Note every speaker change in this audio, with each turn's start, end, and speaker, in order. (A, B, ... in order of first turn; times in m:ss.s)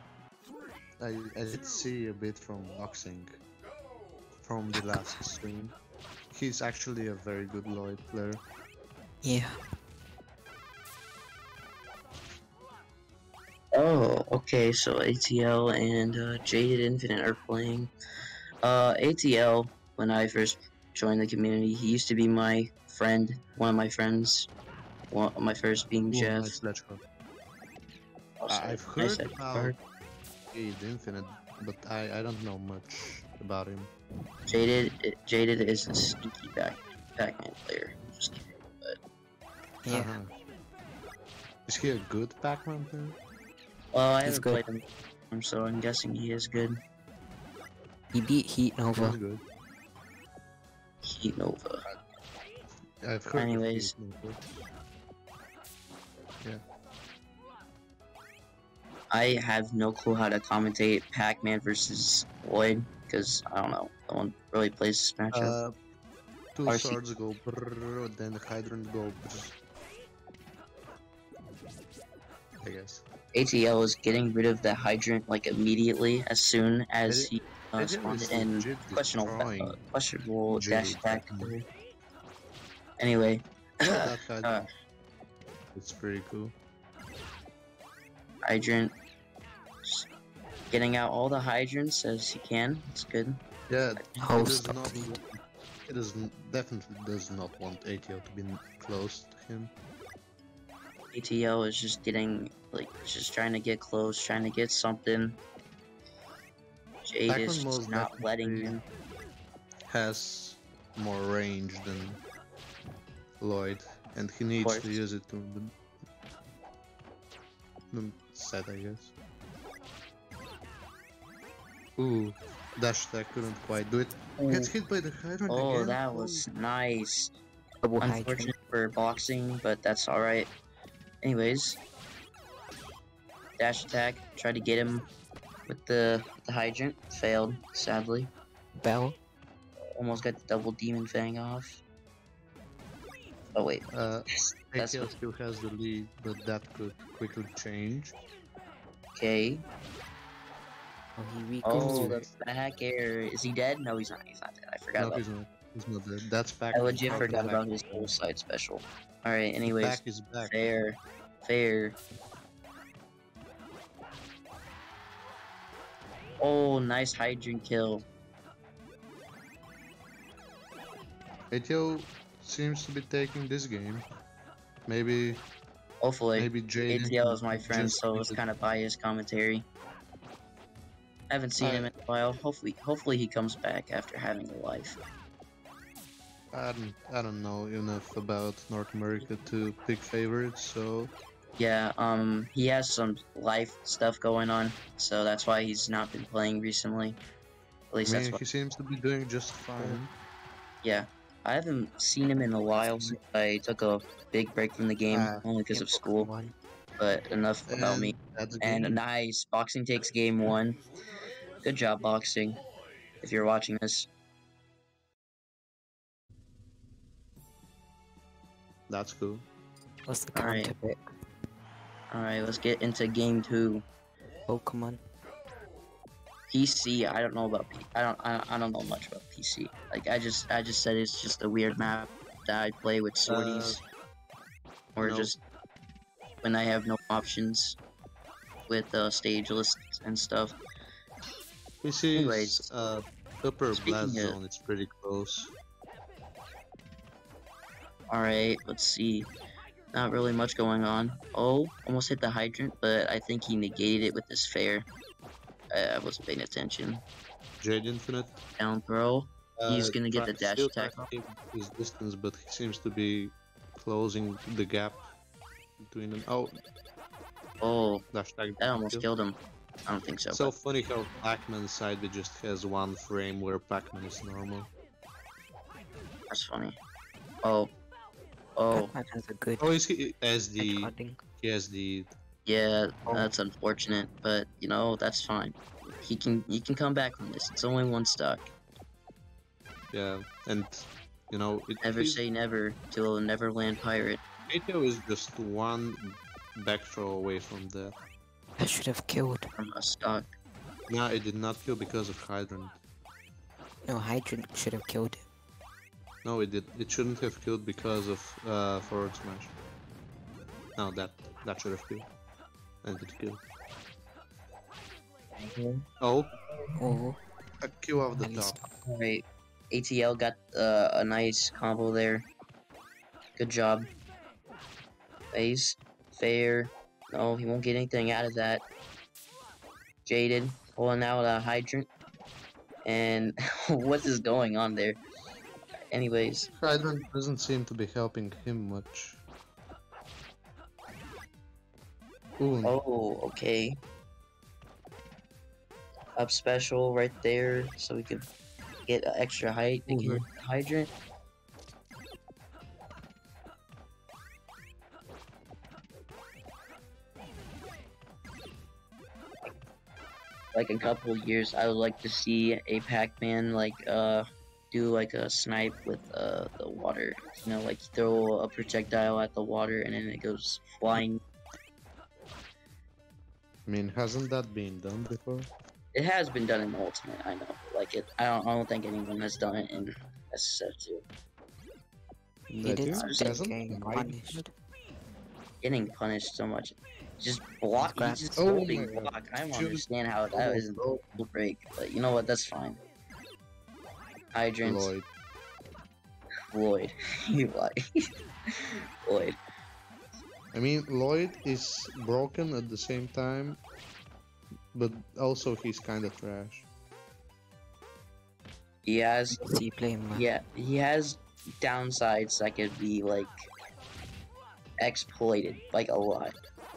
0:01.0-0:03.4 A
0:04.4-0:05.7 A
0:04.8-0:05.2 B
0:06.3-0:08.4 A
0:09.2-0:09.6 B
0:13.7-0:17.9 C
0:18.6-0:24.5 C
0:25.1-0:26.6 C
0:26.1-0:27.0 A
0:28.4-0:29.8 C
0:28.5-0:29.8 A
0:30.5-0:33.9 A
0:34.5-0:39.0 C
0:39.8-0:40.1 B
0:39.9-0:40.3 A
0:41.7-0:43.2 A
0:43.9-0:46.8 C
0:44.2-0:44.6 B
0:48.1-0:49.2 B
0:49.0-0:49.4 A
0:51.0-0:51.8 C
0:53.0-0:54.4 A
0:53.3-0:53.9 C
0:59.1-1:05.6 C
1:05.3-1:05.8 A
1:06.5-1:09.5 A
1:06.7-1:07.0 C
1:12.6-1:13.0 A
1:13.3-1:21.7 C
1:17.0-1:19.8 A
1:20.5-1:21.5 A
1:23.0-1:24.6 C
1:23.9-1:24.6 A
1:25.7-1:26.5 A
1:28.4-1:28.9 C
1:30.7-1:33.4 C
1:33.7-1:39.7 A
1:34.2-1:35.1 B
1:41.1-1:45.4 C
1:47.0-1:48.8 C
1:47.3-1:48.8 A
1:49.9-1:52.2 A
1:53.4-1:55.7 A
1:54.6-1:55.0 C
1:57.9-1:59.1 A
2:02.0-2:06.4 A
2:04.4-2:04.7 C
2:05.5-2:07.3 C
2:07.8-2:08.5 B
2:08.0-2:10.5 C
2:11.2-2:11.8 C
2:13.6-2:15.1 C
2:15.7-2:18.3 C
2:18.8-2:19.2 B
2:19.9-2:21.8 C
2:23.5-2:25.1 C
2:23.9-2:28.2 A
2:29.1-2:29.6 C
2:31.2-2:32.2 B
2:31.6-2:35.2 C
2:31.7-2:32.3 A
2:35.0-2:38.1 A
2:36.7-2:42.0 C
2:37.0-2:37.6 B
2:39.6-2:40.6 A
2:46.4-2:48.0 C
2:51.5-2:54.0 A
2:54.8-2:55.4 A
2:56.0-2:59.6 C
2:56.4-2:58.4 A
3:01.3-3:05.0 C
3:01.6-3:01.9 A
3:06.5-3:11.1 A
3:11.6-3:17.2 C
3:17.9-3:18.4 C
3:18.0-3:20.1 A
3:19.8-3:20.0 B
3:20.8-3:26.3 C
3:25.1-3:25.5 A
3:25.7-3:26.5 B
3:27.0-3:30.8 C
3:27.7-3:29.0 A
3:31.6-3:32.6 C
3:33.2-3:34.1 C
3:38.9-3:39.4 A
3:40.1-3:41.1 B
3:40.3-3:40.7 C
3:42.1-3:43.8 C
3:44.5-3:45.0 B
3:46.5-3:53.8 C
3:53.2-3:53.8 A
3:55.0-3:55.4 C
3:55.0-3:55.3 A
3:56.4-3:57.8 C
3:58.7-4:00.6 C
4:01.8-4:05.5 A
4:02.1-4:02.7 C
4:03.7-4:04.4 C
4:08.1-4:09.3 C
4:09.9-4:14.9 C
4:15.7-4:17.0 C
4:17.6-4:18.4 A
4:18.6-4:21.1 C
4:19.6-4:25.1 A
4:25.9-4:26.6 A
4:27.6-4:28.0 C
4:28.1-4:29.1 A
4:28.6-4:30.5 C
4:30.3-4:34.7 A
4:36.3-4:36.8 C
4:37.4-4:37.7 C
4:38.6-4:38.9 C
4:38.7-4:39.7 B
4:39.6-4:42.1 A
4:40.6-4:41.2 B
4:42.4-4:48.5 C
4:49.9-4:52.2 A
4:51.8-4:54.2 C
4:54.5-4:58.0 A
4:58.6-4:59.5 B
4:59.6-5:00.3 C
5:00.9-5:02.8 A
5:03.8-5:05.2 B
5:06.2-5:09.5 A
5:10.8-5:12.1 A
5:12.8-5:13.4 A
5:15.4-5:15.8 C
5:16.0-5:16.3 A
5:16.4-5:16.8 C
5:16.8-5:17.2 B
5:17.6-5:18.6 A
5:18.2-5:18.6 B
5:18.8-5:22.2 C
5:23.4-5:23.9 C
5:25.3-5:28.6 C
5:30.0-5:31.9 C
5:32.8-5:35.0 C
5:35.9-5:36.5 C
5:36.6-5:39.2 A
5:42.4-5:42.8 A
5:42.6-5:43.8 C
5:46.2-5:48.2 C
5:48.8-5:50.9 C
5:49.9-5:50.2 A
6:00.5-6:11.2 C
6:13.7-6:15.5 A
6:15.9-6:21.0 C
6:22.5-6:24.5 B
6:22.6-6:24.4 A
6:22.9-6:23.4 C
6:25.6-6:32.8 C
6:27.8-6:28.4 B
6:28.4-6:31.2 A
6:34.3-6:34.9 C
6:34.6-6:35.0 A
6:36.5-6:38.1 C
6:39.0-6:39.4 C
6:40.5-6:43.6 A
6:44.7-6:46.6 A
6:48.8-6:49.4 C
6:49.3-6:50.2 B
6:50.1-6:53.5 C
6:54.8-6:56.4 C